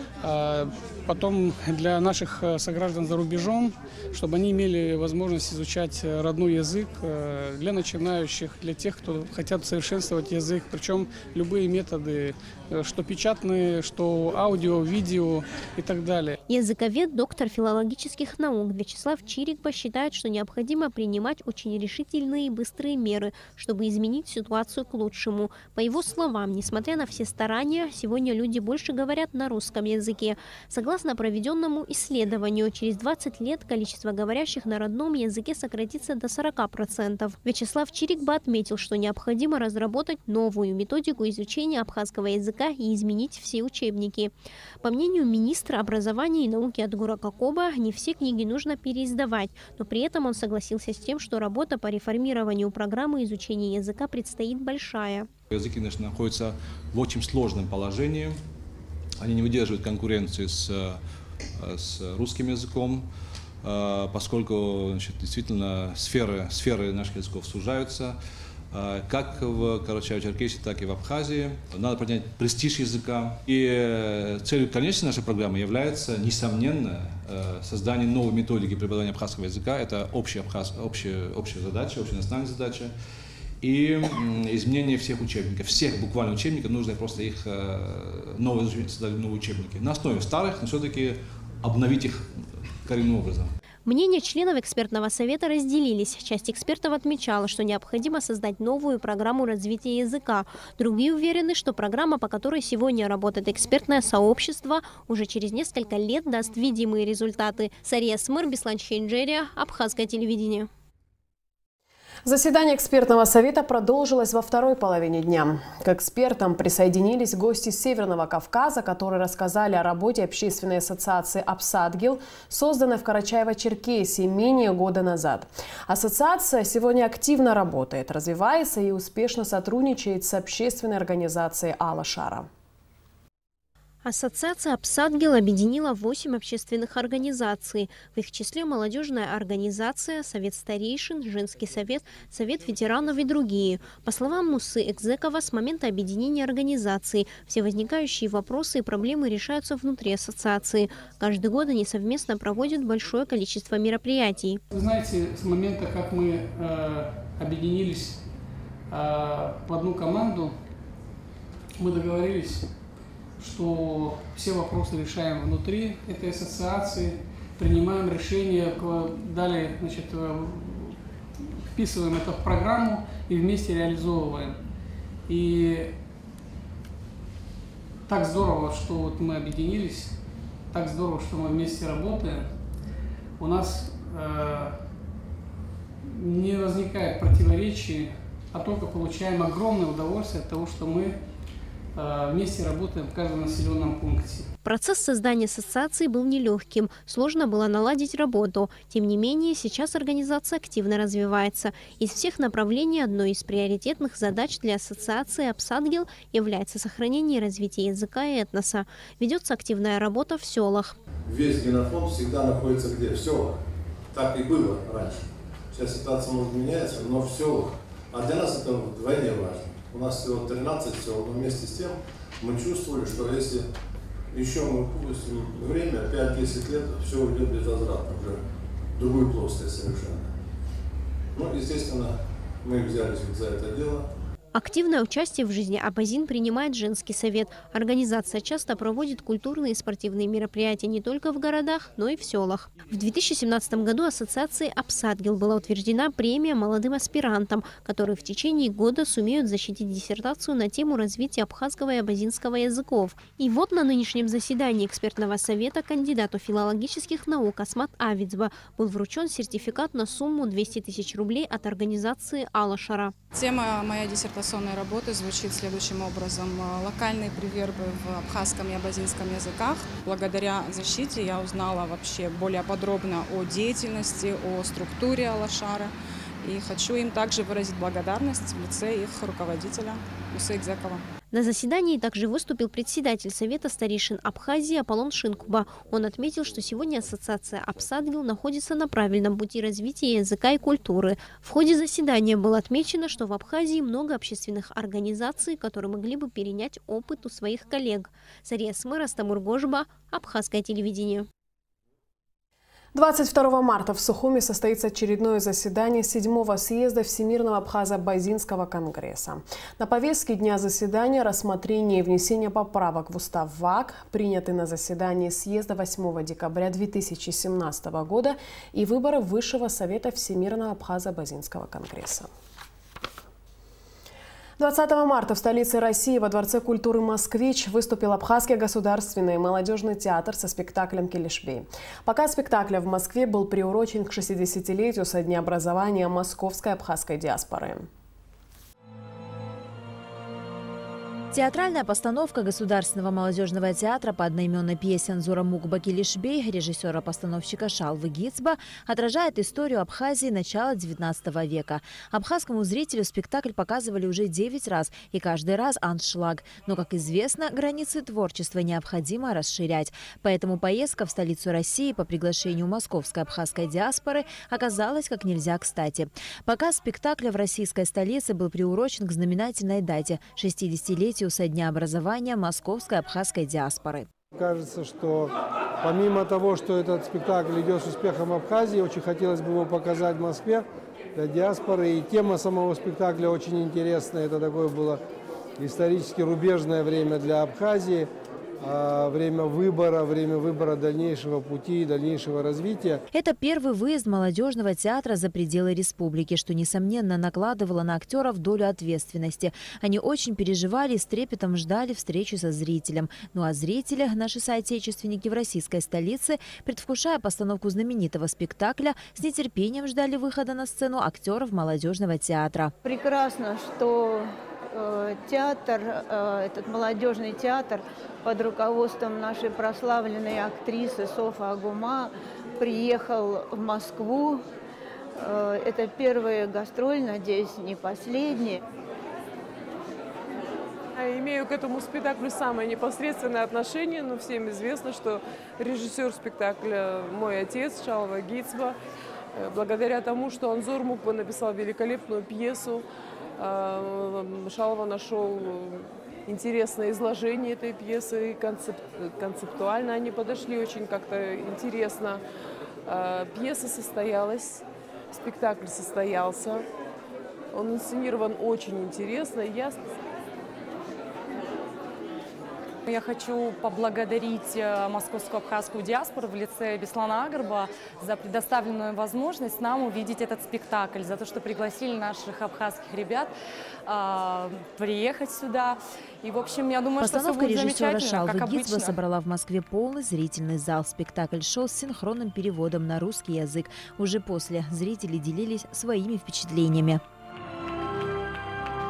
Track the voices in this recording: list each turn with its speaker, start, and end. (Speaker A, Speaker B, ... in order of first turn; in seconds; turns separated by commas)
Speaker A: 0.2-16.4, Speaker B: 16.5-55.3, Speaker C: 55.5-58.4, Speaker C: 59.2-61.0, Speaker C: 61.5-63.1, Speaker C: 63.6-68.2, Speaker C: 68.7-82.9, Speaker C: 83.6-93.5, Speaker B: 93.9-110.7, Speaker D: 112.3-132.5, Speaker B: 134.1-154.6, Speaker A: 154.7-158.3, Speaker A: 158.9-160.6, Speaker A: 161.8-162.8, Speaker A: 163.4-171.0, Speaker A: 171.7-174.6, Speaker A: 175.3-175.9, Speaker A: 178.1-180.2, Speaker A: 180.7-182.5, Speaker A: 183.4-184.8, Speaker A: 186.1-191.2, Speaker A: 191.9-194.5, Speaker B: 194.6-211.0, Speaker E: 211.3-213.6, Speaker E: 214.1-223.7, Speaker E: 224.3-228.4, Speaker E: 229.0-230.3, Speaker E: 231.3-234.1, Speaker B: 234.5-263.1, Speaker F: 263.3-281.0, Speaker B: 281.3-301.3, Speaker D: 302.9-322.3, Speaker D: 324.6-337.9, Speaker G: 341.3-374.1, Speaker H: 374.3-385.0, Speaker H: 385.6-388.1, Speaker H: 388.6-393.0, Speaker G: 393.1-412.7, Speaker I: 412.8-424.4, Speaker I: 425.2-428.6, Speaker J: 430.9-438.8, Speaker J: 439.4-442.9, Speaker J: 443.4-452.2, Speaker J: 452.9-456.6, Speaker J: 457.5-459.8, Speaker K: 462.9-473.3, Speaker K: 473.9-479.0, Speaker G: 477.0-487.0